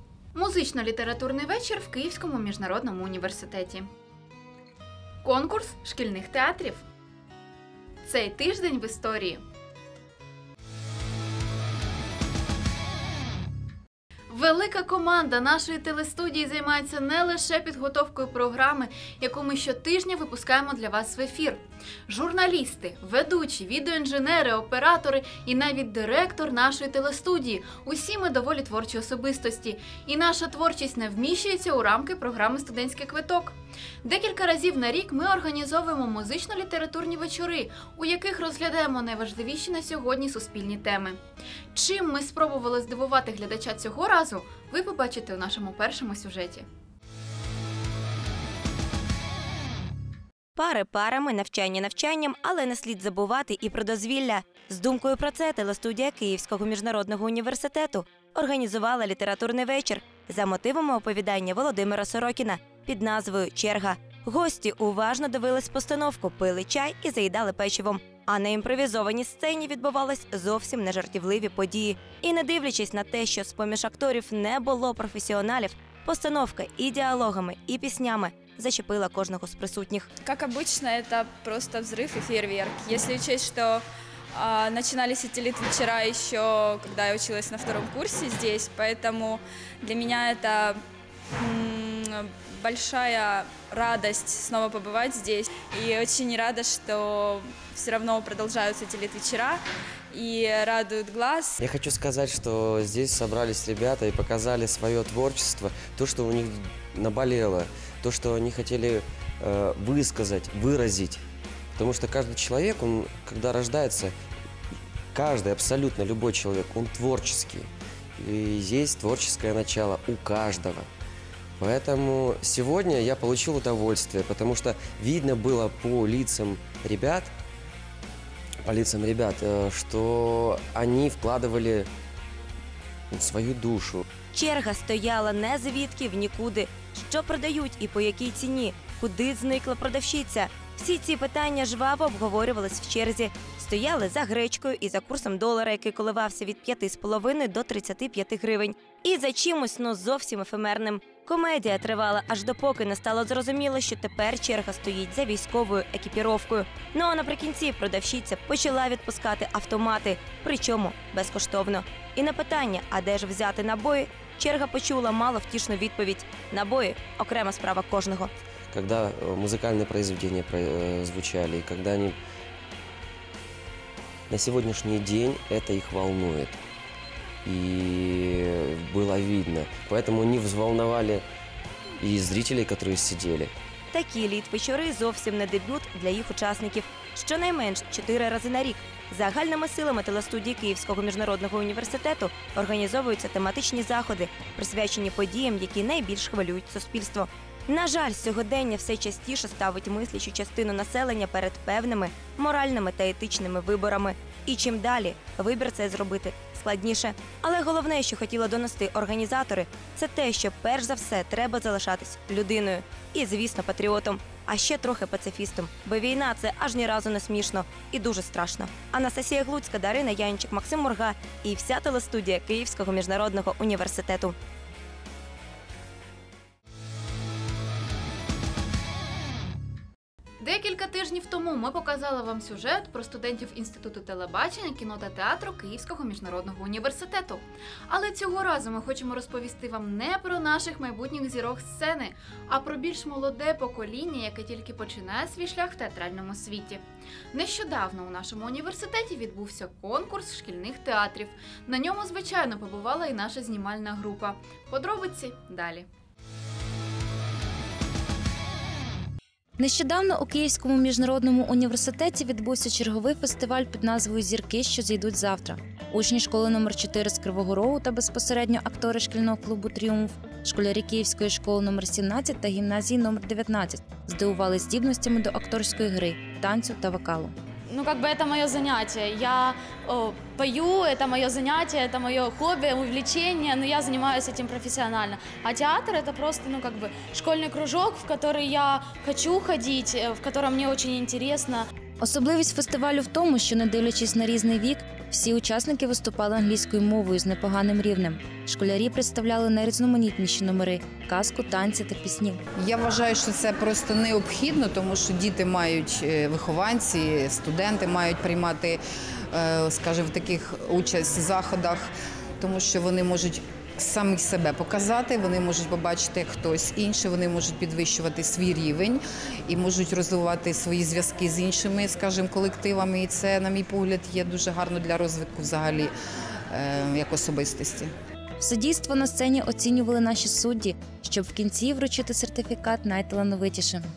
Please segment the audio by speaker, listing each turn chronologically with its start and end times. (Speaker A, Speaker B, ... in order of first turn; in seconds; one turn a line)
Speaker A: 0.3-3.9
Speaker A: 5.2-6.8
Speaker A: 8.0-9.4
Speaker A: 14.3-41.2
Speaker A: 41.8-46.7
Speaker B: 50.6-80.1
Speaker C: 80.2-90.8
Speaker C: 91.4-101.6
Speaker D: 101.6-111.2
Speaker D: 111.8-114.1
Speaker D: 115.1-120.9
Speaker D: 121.6-127.3
Speaker D: 128.7-131.9
Speaker D: 133.1-134.1
Speaker B: 134.3-168.3
Speaker D: 168.7-172.2
Speaker D: 174.3-176.6
Speaker D: 177.4-181.2
Speaker D: 182.0-183.5
Speaker B: 183.9-224.3
Speaker A: 230.4-255.9
Speaker E: 259.6-277.3
Speaker F: 277.7-291.6
Speaker E: 292.0-302.4
Speaker G: 302.6-308.8
Speaker G: 309.3-311.9
Speaker G: 312.4-325.9
Speaker G: 326.5-327.9
Speaker E: 328.4-333.9